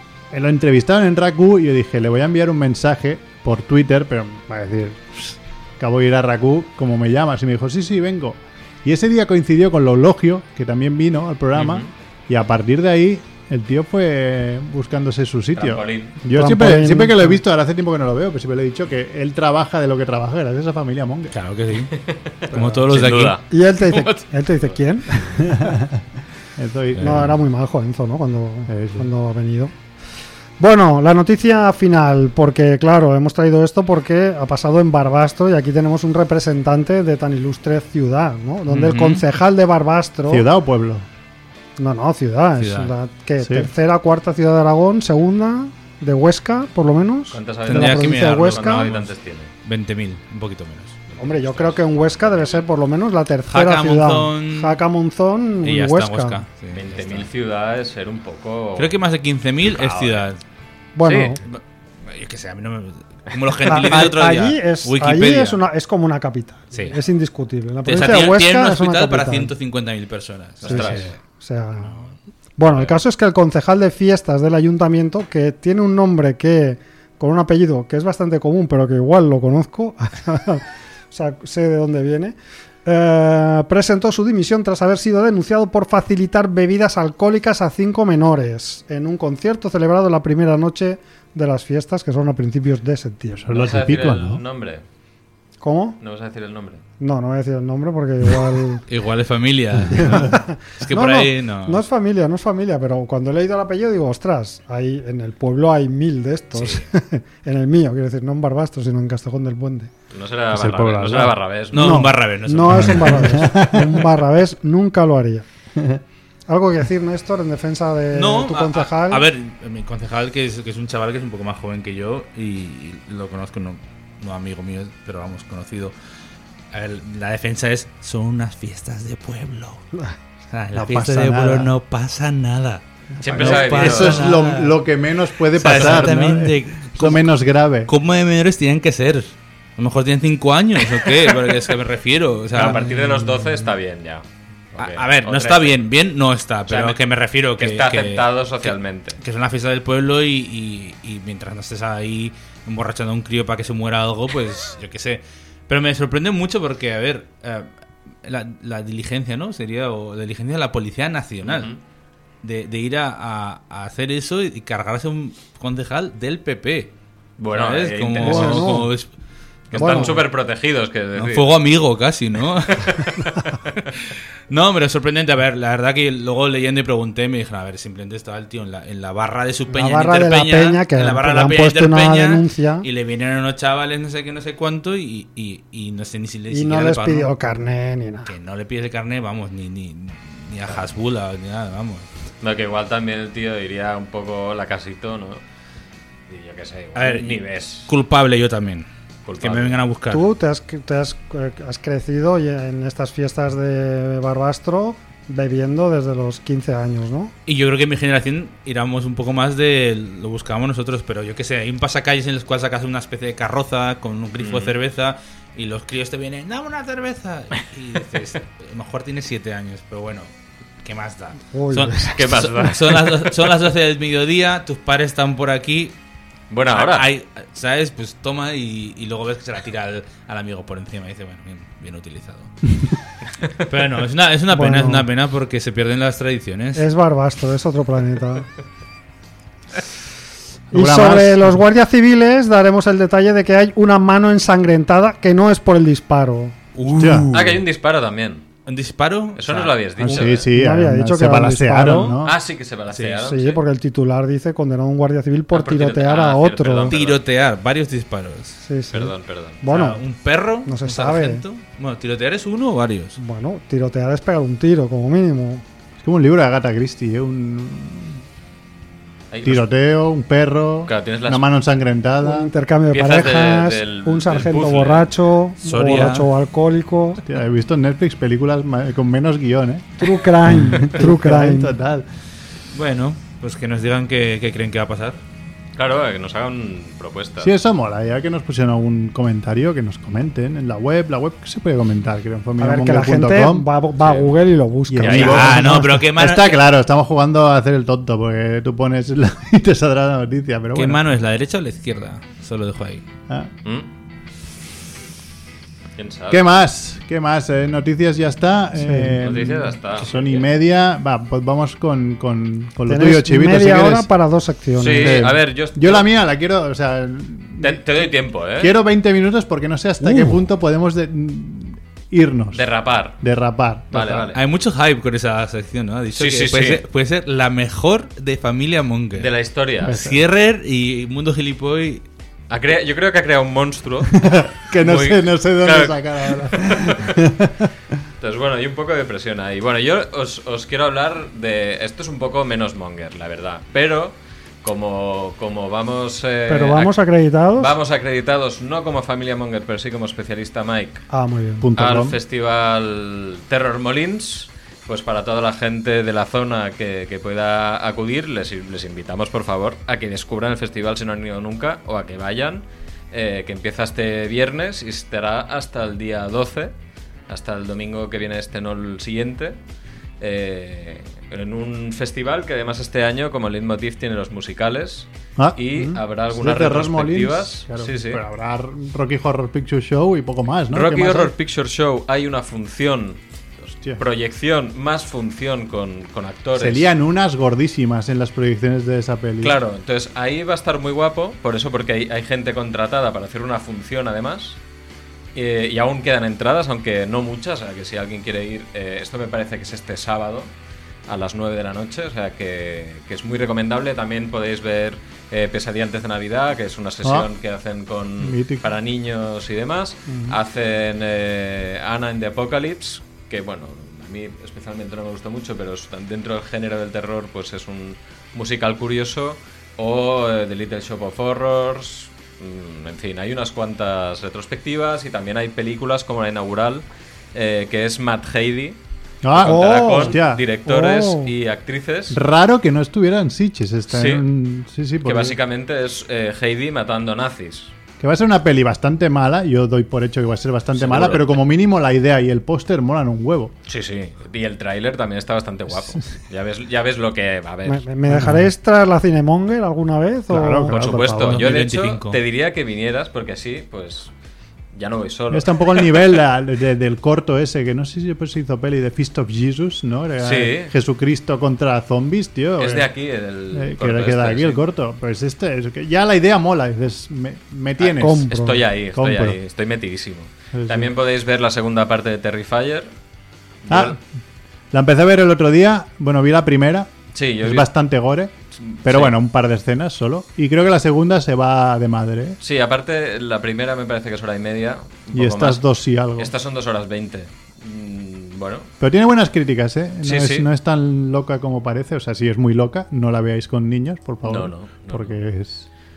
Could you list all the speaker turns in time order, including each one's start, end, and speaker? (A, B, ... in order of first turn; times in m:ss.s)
0:00.3-0:21.3 A
0:11.5-0:11.9 B
0:15.5-0:16.1 B
0:16.3-0:17.4 C
0:21.3-0:23.4 D
0:21.9-0:23.4 B
0:23.5-0:25.6 C
0:25.2-0:26.0 A
0:26.6-0:27.4 A
0:27.0-0:29.7 C
0:28.7-0:29.1 A
0:30.6-0:40.4 C
0:38.7-0:39.2 D
0:40.3-0:41.0 A
0:41.8-0:48.9 C
0:42.6-0:42.9 D
0:43.4-0:43.7 A
0:47.3-0:49.5 B
0:47.7-0:49.1 D
0:49.6-0:51.2 D
0:51.1-0:52.6 B
0:51.2-0:56.4 C
0:53.5-0:54.8 D
0:55.6-0:57.3 D
0:56.7-0:58.9 B
0:58.8-1:00.4 D
0:59.6-1:00.2 B
1:01.0-1:01.4 C
1:01.0-1:01.4 B
1:01.4-1:05.6 D
1:03.7-1:09.5 C
1:07.8-1:11.2 D
1:10.6-1:11.1 B
1:10.6-1:11.9 C
1:11.8-1:12.1 D
1:12.6-1:33.5 C
1:33.4-1:34.4 A
1:33.5-1:34.8 B
1:35.6-1:36.0 C
1:36.0-1:36.8 B
1:37.0-1:38.8 C
1:38.9-1:41.8 D
1:39.9-1:49.9 C
1:46.5-1:46.8 D
1:50.1-1:52.0 B
1:50.5-1:51.4 A
1:51.7-1:53.6 D
1:51.7-1:55.4 C
1:52.7-1:54.0 A
1:56.5-1:59.2 C
1:58.1-2:05.9 D
2:06.7-2:09.8 D
2:10.5-2:14.8 D
2:10.7-2:11.7 A
2:13.2-2:14.4 B
2:13.3-2:17.9 A
2:15.5-2:17.3 D
2:17.8-2:23.0 D
2:22.5-2:25.7 B
2:24.8-2:37.7 D
2:26.7-2:27.0 B
2:27.6-2:29.2 B
2:38.2-2:41.7 D
2:41.4-2:41.8 B
2:42.4-2:46.9 D
2:47.4-2:48.8 B
2:47.5-2:49.1 D
2:48.2-2:48.9 C
2:49.7-2:50.2 D
2:49.7-2:51.5 B
2:49.7-2:50.2 C
2:51.1-2:53.4 D
2:54.5-3:07.3 D
2:59.7-3:02.9 C
3:06.5-3:08.3 C
3:08.2-3:12.1 D
3:12.4-3:15.4 B
3:16.3-3:17.9 B
3:16.9-3:18.9 D
3:19.2-3:19.8 B
3:19.4-3:20.3 D
3:20.1-3:27.3 C
3:27.4-3:40.3 D
3:34.4-3:34.7 B
3:40.8-3:46.0 D
3:41.5-3:42.1 C
3:42.1-3:43.3 B
3:46.5-3:47.1 B
3:46.7-3:52.7 D
3:53.7-3:56.9 D
3:54.5-3:55.1 C
3:56.7-3:58.5 C
4:00.7-4:01.6 A
4:00.7-4:06.6 C
4:06.7-4:07.5 D
4:07.0-4:07.3 A
4:07.3-4:08.4 B
4:08.6-4:10.3 D
4:09.4-4:10.5 B
4:10.0-4:12.4 A
4:10.5-4:12.2 C
4:12.2-4:13.6 B
4:12.9-4:13.2 D
4:13.2-4:17.0 C
4:15.5-4:17.2 B
4:16.9-4:18.6 D
4:18.6-4:20.0 C
4:18.9-4:19.6 B
4:19.6-4:23.2 D
4:20.6-4:21.4 C
4:23.2-4:25.6 C
4:26.0-4:28.2 A
4:29.3-4:29.6 B
4:29.4-4:32.5 A
4:30.8-4:31.4 B
4:32.2-4:37.2 C
4:32.9-4:35.1 B
4:35.6-4:36.3 D
4:37.2-4:42.0 A
4:40.0-4:41.7 C
4:42.7-4:45.2 D
4:45.8-4:47.5 B
4:47.4-4:53.7 A
4:52.6-4:55.9 C
4:54.0-4:54.3 B
4:54.9-5:01.0 A
4:55.0-4:55.4 B
4:55.1-4:56.6 D
5:00.7-5:03.0 D
5:06.0-5:06.4 B
5:06.3-5:14.1 A
5:08.8-5:09.2 C
5:09.2-5:10.5 B
5:12.9-5:15.2 C
5:14.8-5:16.0 B
5:14.8-5:22.6 A
5:17.6-5:18.7 B
5:20.0-5:20.3 D
5:22.5-5:23.2 B
5:23.2-5:24.3 A
5:23.9-5:24.4 B
5:24.3-5:32.0 D
5:26.1-5:26.8 B
5:29.2-5:30.0 B
5:29.8-5:30.2 A
5:32.5-5:37.2 B
5:34.1-5:37.7 A
5:38.2-5:46.9 B
5:46.5-5:47.7 C
5:47.6-5:51.0 B
5:51.1-5:51.7 C
5:51.6-5:52.2 A
5:51.8-6:06.7 B
6:07.3-6:09.6 B
6:10.2-6:18.2 B
6:15.4-6:21.3 A
6:20.7-6:26.9 B
6:26.5-6:29.6 A
6:29.4-6:34.6 B
6:35.3-6:40.5 B
6:41.1-7:08.8 B
6:47.0-6:47.3 A
6:48.2-6:48.6 A
7:09.2-7:10.4 A
7:09.3-7:12.2 B
7:09.4-7:11.3 C
7:12.1-7:15.4 A
7:13.9-7:14.2 B
7:15.0-7:17.7 B
7:18.0-7:23.5 A
7:20.7-7:21.4 B
7:23.6-7:27.8 B
7:27.6-7:30.8 C
7:28.1-7:28.4 A
7:30.3-7:31.5 A
7:30.7-7:34.1 B
7:31.2-7:32.2 D
7:34.7-7:36.1 B
7:35.3-7:42.9 A
7:40.2-7:40.7 B
7:42.6-7:44.6 B
7:43.5-7:48.3 A
7:47.8-7:52.9 B
7:48.0-7:48.6 C
7:48.9-7:49.4 A
7:50.5-7:50.9 A
7:53.6-7:54.0 B
7:53.7-7:54.0 A
7:54.7-7:58.3 A
7:57.1-7:57.7 B
7:58.6-7:59.1 B
7:58.8-8:02.4 A
8:02.4-8:05.6 B
8:05.1-8:06.3 A
8:06.2-8:08.7 B
8:08.8-8:15.7 A
8:10.0-8:10.4 B
8:14.2-8:15.1 B